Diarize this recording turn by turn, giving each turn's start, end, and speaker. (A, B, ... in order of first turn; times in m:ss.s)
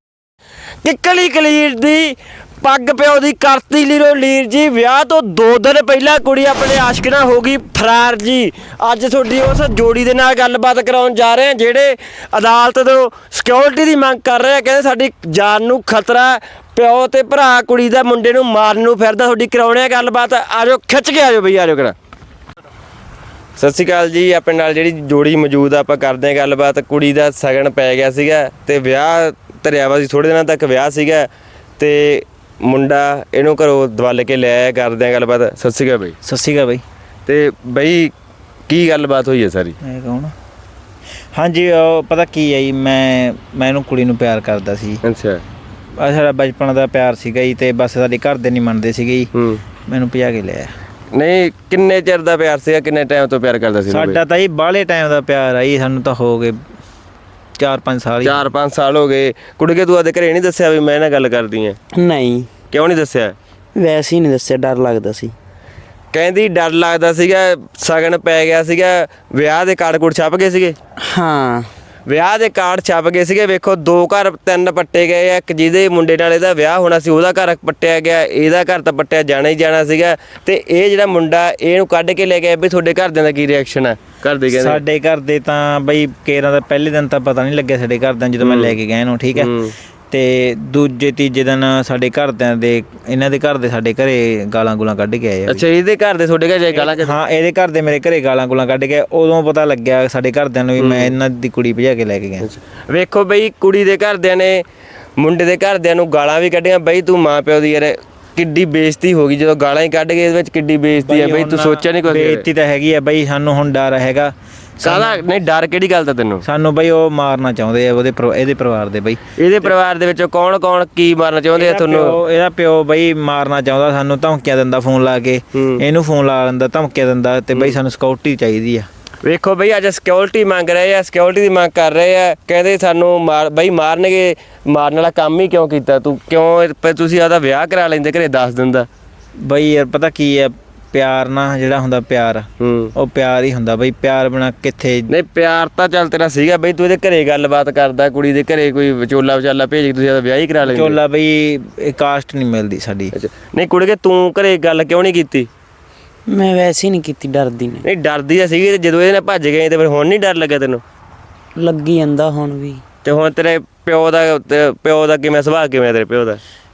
0:00.8-0:22.0 A
0:23.6-0:31.3 A
0:31.8-0:36.2 A
0:36.2-0:36.8 B
0:37.3-0:38.1 A
0:38.7-0:39.8 A
0:39.8-0:40.3 B
0:41.4-0:45.0 B
0:45.0-0:45.4 A
0:46.0-0:49.3 B
0:49.4-0:49.6 A
0:49.9-0:50.7 B
0:51.1-0:54.2 A
0:53.9-0:56.6 B
0:57.6-0:58.5 B
0:58.2-1:01.8 A
1:02.0-1:02.5 C
1:02.7-1:03.4 A
1:03.8-1:05.3 C
1:06.1-1:10.8 A
1:11.0-1:11.7 C
1:12.1-1:24.8 A
1:24.5-1:29.5 B
1:28.4-1:28.8 A
1:29.4-1:29.8 A
1:30.1-1:35.7 B
1:35.5-1:37.2 A
1:36.7-1:42.5 B
1:40.8-1:41.1 A
1:42.4-1:44.6 A
1:45.2-1:52.5 A
1:51.0-1:55.2 B
1:54.8-1:56.4 A
1:56.4-1:59.7 B
1:59.4-2:02.2 A
2:01.6-2:08.9 B
2:05.6-2:05.8 A
2:09.2-2:18.9 A
2:19.5-2:25.1 B
2:22.6-2:22.9 A
2:25.1-2:31.0 A
2:30.6-2:33.1 B
2:33.1-2:35.5 A
2:36.3-2:37.8 C
2:37.8-2:40.8 A
2:41.6-2:42.8 C
2:43.0-2:46.4 A